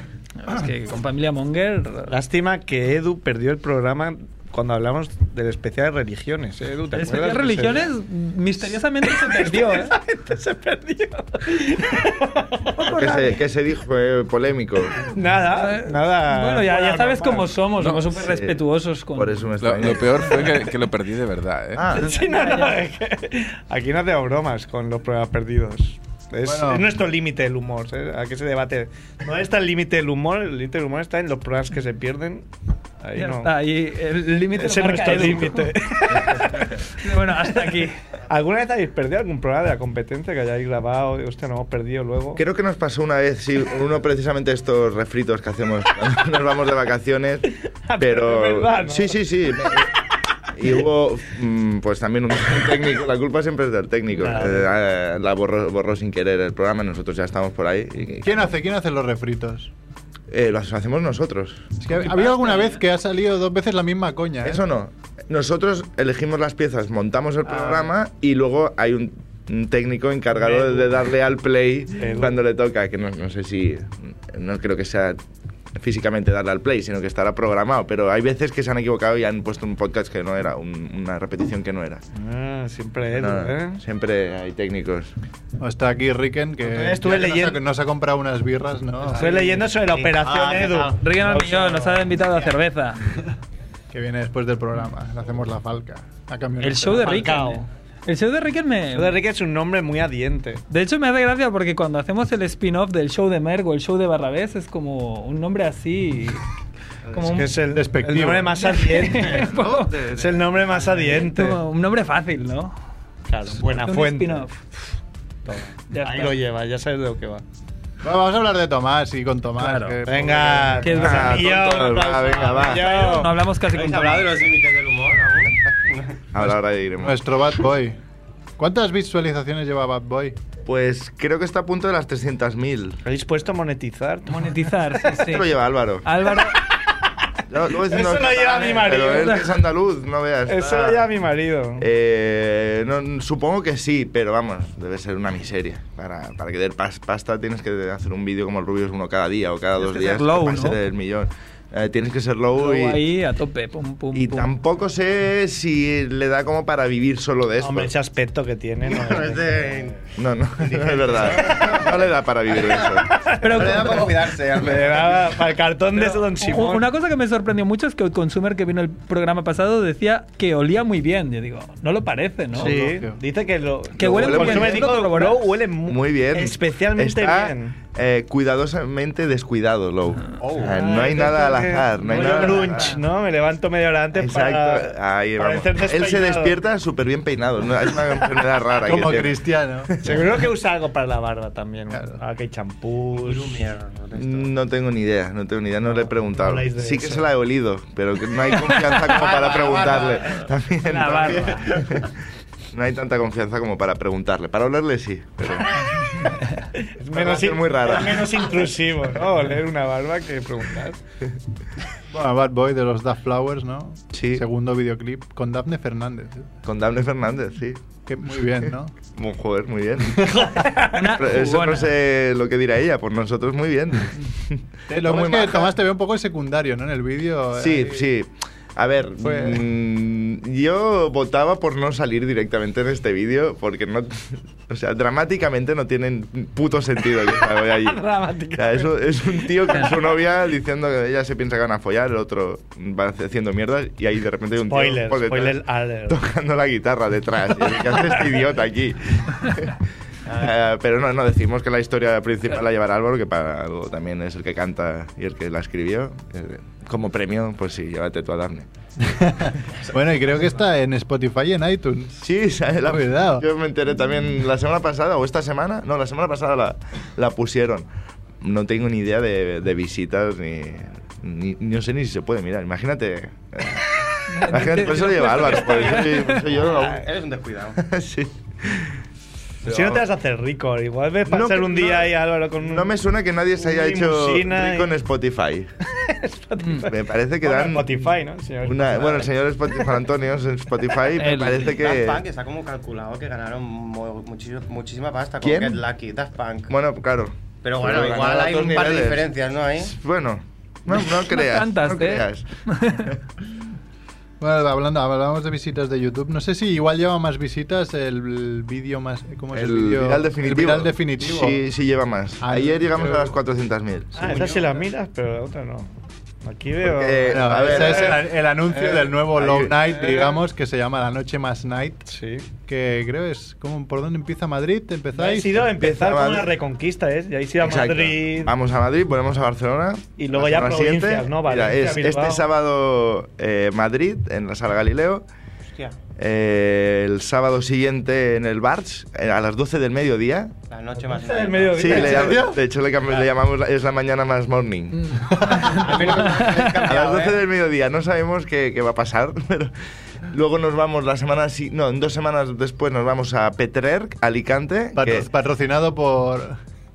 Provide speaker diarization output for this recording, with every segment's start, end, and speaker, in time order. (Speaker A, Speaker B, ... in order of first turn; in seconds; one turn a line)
Speaker A: 0.4-2.1
Speaker B: 2.1-7.9
Speaker A: 6.9-9.9
Speaker B: 9.0-13.4
Speaker C: 12.8-15.1
Speaker B: 15.0-17.7
Speaker A: 15.6-19.5
Speaker C: 18.1-18.6
Speaker C: 19.1-20.5
Speaker D: 19.6-21.9
Speaker C: 21.8-22.1
Speaker B: 21.9-32.5
Speaker A: 22.0-22.8
Speaker E: 26.4-26.9
Speaker B: 33.0-33.5
Speaker A: 33.2-38.0
Speaker B: 34.5-36.9
Speaker B: 37.5-42.4
Speaker C: 42.4-50.0
Speaker B: 47.9-49.8
Speaker C: 50.5-58.4
Speaker B: 54.1-54.7
Speaker E: 58.2-59.7
Speaker C: 60.3-61.7
Speaker E: 61.8-64.6
Speaker A: 62.0-62.8
Speaker C: 64.4-75.2
Speaker E: 67.5-67.8
Speaker B: 70.4-70.9
Speaker B: 72.0-72.4
Speaker C: 75.8-82.0
Speaker B: 82.1-83.8
Speaker C: 83.1-85.1
Speaker E: 85.6-89.5
Speaker B: 86.6-87.6
Speaker B: 89.1-92.2
Speaker F: 89.1-91.0
Speaker A: 91.0-93.0
Speaker E: 93.9-97.3
Speaker A: 96.6-99.2
Speaker B: 96.9-97.7
Speaker B: 98.9-100.6
Speaker A: 100.7-106.4
Speaker A: 107.1-107.5
Speaker B: 107.2-111.6
Speaker E: 107.7-108.6
Speaker A: 108.5-110.0
Speaker F: 110.0-110.3
Speaker A: 111.0-112.7
Speaker B: 113.3-114.5
Speaker A: 113.6-114.7
Speaker B: 115.5-117.4
Speaker A: 115.9-116.4
Speaker E: 118.0-121.2
Speaker A: 119.6-120.0
Speaker B: 120.1-123.4
Speaker A: 120.8-121.4
Speaker C: 121.0-122.9
Speaker A: 122.7-124.5
Speaker F: 123.7-126.2
Speaker C: 126.3-127.2
Speaker E: 127.0-128.0
Speaker E: 128.6-130.4
Speaker C: 130.7-133.0
Speaker B: 133.1-135.1
Speaker A: 134.3-135.5
Speaker C: 135.2-136.1
Speaker A: 136.0-136.6
Speaker B: 136.6-137.1
Speaker C: 137.5-141.1
Speaker B: 137.8-139.7
Speaker B: 140.4-141.9
Speaker C: 141.8-153.0
Speaker A: 149.8-150.8
Speaker A: 152.6-154.5
Speaker C: 154.1-157.9
Speaker B: 157.6-159.7
Speaker F: 158.9-160.0
Speaker C: 160.2-163.1
Speaker F: 160.6-162.1
Speaker B: 163.1-166.9
Speaker A: 163.4-164.1
Speaker F: 163.4-165.4
Speaker A: 165.9-172.8
Speaker B: 172.6-177.8
Speaker E: 172.6-173.2
Speaker A: 173.9-175.4
Speaker C: 174.0-174.9
Speaker C: 175.9-183.0
Speaker F: 180.4-180.8
Speaker B: 180.5-186.6
Speaker A: 182.1-183.0
Speaker C: 184.1-190.2
Speaker E: 188.8-189.9
Speaker B: 190.0-193.6
Speaker E: 191.9-192.2
Speaker F: 193.1-194.5
Speaker C: 194.2-202.1
Speaker B: 195.8-197.3
Speaker F: 199.1-200.5
Speaker A: 200.8-201.7
Speaker F: 201.1-202.1
Speaker C: 202.7-205.9
Speaker B: 206.8-211.0
Speaker C: 207.1-208.5
Speaker E: 212.1-216.5
Speaker C: 214.1-214.4
Speaker C: 216.7-217.8
Speaker E: 218.1-218.9
Speaker C: 219.1-225.7
Speaker B: 220.4-221.1
Speaker A: 220.8-221.9
Speaker E: 224.9-228.1
Speaker C: 227.6-258.7
Speaker E: 229.2-229.6
Speaker B: 237.5-240.2
Speaker B: 244.7-246.2
Speaker E: 259.0-262.2
Speaker C: 262.2-267.9
Speaker E: 262.8-263.5
Speaker C: 268.4-277.1
Speaker A: 274.3-276.4
Speaker F: 276.5-277.8
Speaker B: 276.6-276.9
Speaker C: 277.8-279.0
Speaker C: 279.6-280.1
Speaker B: 279.6-282.9
Speaker C: 281.3-285.7
Speaker B: 283.6-284.9
Speaker B: 285.9-289.3
Speaker A: 286.6-286.9
Speaker C: 286.9-292.2
Speaker A: 291.2-291.8
Speaker F: 291.6-296.7
Speaker C: 295.4-295.8
Speaker C: 296.7-302.4
Speaker F: 297.6-300.0
Speaker A: 301.0-303.1
Speaker E: 304.4-311.6
Speaker C: 309.5-314.2
Speaker E: 312.4-313.4
Speaker B: 314.1-315.9
Speaker F: 314.2-314.9
Speaker B: 316.4-318.2
Speaker C: 316.8-318.3
Speaker E: 317.3-325.7
Speaker C: 319.3-319.8
Speaker B: 319.9-320.4
Speaker B: 322.1-322.5
Speaker B: 325.1-328.5
Speaker C: 325.8-326.5
Speaker C: 327.6-335.2
Speaker B: 330.2-332.5
Speaker C: 336.2-340.5
Speaker F: 340.7-342.0
Speaker B: 341.0-342.6
Speaker C: 341.7-345.2
Speaker E: 342.0-342.6
Speaker E: 345.2-345.9
Speaker F: 345.6-347.4
Speaker C: 345.9-355.3
Speaker A: 346.4-346.8
Speaker E: 354.9-356.6